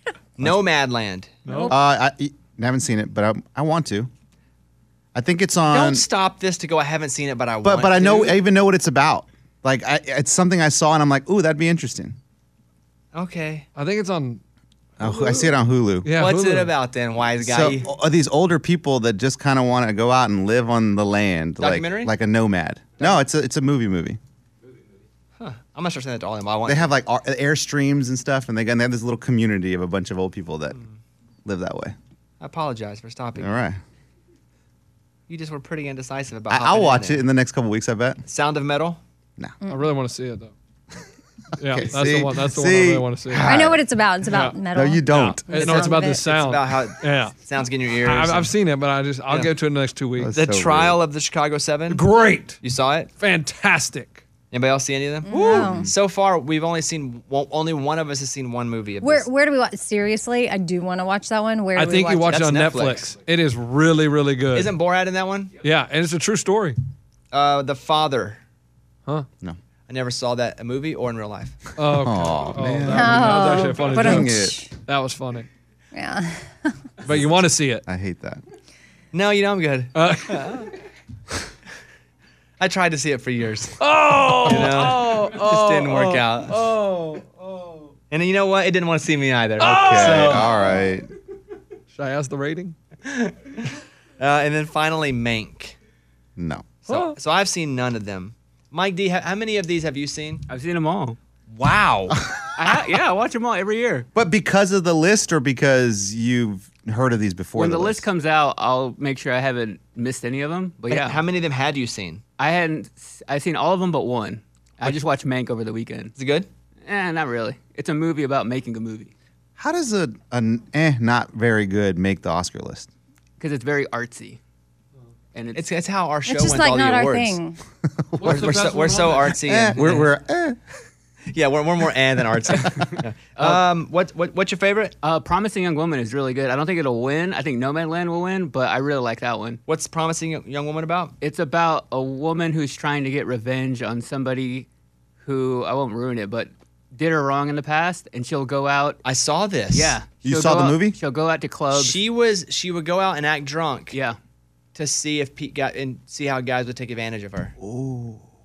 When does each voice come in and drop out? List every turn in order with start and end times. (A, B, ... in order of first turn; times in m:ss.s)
0:00.4-0:01.3 A
0:01.5-0:01.8 B
0:01.5-0:01.8 C
0:01.7-0:04.1 D
0:05.2-0:06.1 D
0:05.7-0:08.4 A
0:07.6-0:12.2 D
0:13.1-0:13.7 A
0:13.8-0:14.4 B
0:15.0-0:16.1 D
0:16.0-0:16.7 B
0:16.2-0:17.9 A
0:17.4-0:24.2 D
0:21.6-0:22.1 A
0:25.4-0:26.9 A
0:26.7-0:30.8 D
0:30.7-0:31.0 A
0:31.4-0:32.0 D
0:32.4-0:33.6 A
0:33.4-0:33.8 D
0:35.3-0:37.3 A
0:36.5-0:38.2 D
0:38.2-0:39.0 A
0:39.7-0:40.5 B
0:41.6-0:43.5 B
0:41.7-0:43.9 D
0:43.4-0:46.2 C
0:44.3-0:47.4 B
0:44.7-0:45.6 D
0:45.6-0:48.5 A
0:48.0-0:50.4 B
0:50.2-0:51.0 D
0:50.3-0:52.0 A
0:51.9-0:52.6 B
0:52.6-0:53.1 A
0:53.2-0:54.2 B
0:54.5-0:59.3 A
0:55.3-0:55.9 C
0:55.4-0:55.9 D
0:59.0-1:02.3 C
1:01.8-1:04.8 B
1:02.2-1:03.1 A
1:04.5-1:05.6 A
1:05.6-1:06.8 B
1:07.3-1:08.4 A
1:09.9-1:11.7 A
1:11.8-1:15.5 B
1:12.0-1:14.6 D
1:12.9-1:14.7 C
1:15.9-1:16.8 C
1:17.0-1:17.8 B
1:17.9-1:18.4 D
1:19.1-1:20.7 A
1:20.0-1:20.7 B
1:22.6-1:23.8 A
1:23.8-1:27.8 B
1:24.4-1:26.6 A
1:28.1-1:30.4 A
1:29.6-1:30.9 B
1:29.7-1:31.1 D
1:31.9-1:32.8 B
1:33.1-1:33.5 A
1:34.2-1:35.8 A
1:36.4-1:36.7 D
1:36.9-1:37.2 B
1:36.9-1:40.4 A
1:40.5-1:41.2 E
1:41.6-1:42.2 A
1:42.6-1:44.1 E
1:44.2-1:48.1 D
1:47.6-1:51.2 E
1:50.9-1:52.2 A
1:52.4-1:56.1 E
1:56.2-1:56.5 A
1:56.8-1:59.1 E
1:59.6-2:02.9 D
2:03.4-2:04.4 E
2:05.3-2:05.7 E
2:05.5-2:07.4 A
2:06.3-2:07.6 C
2:08.1-2:08.5 D
2:08.2-2:09.4 B
2:08.2-2:10.1 A
2:09.4-2:10.6 D
2:11.3-2:15.0 A
2:13.4-2:13.6 E
2:15.0-2:19.6 E
2:19.7-2:21.1 A
2:21.2-2:24.7 E
2:25.2-2:29.0 E
2:29.0-2:30.0 A
2:29.7-2:32.0 E
2:30.2-2:31.0 D
2:31.7-2:34.0 A
2:33.9-2:34.2 E
2:34.8-2:37.5 A
2:37.6-2:38.2 D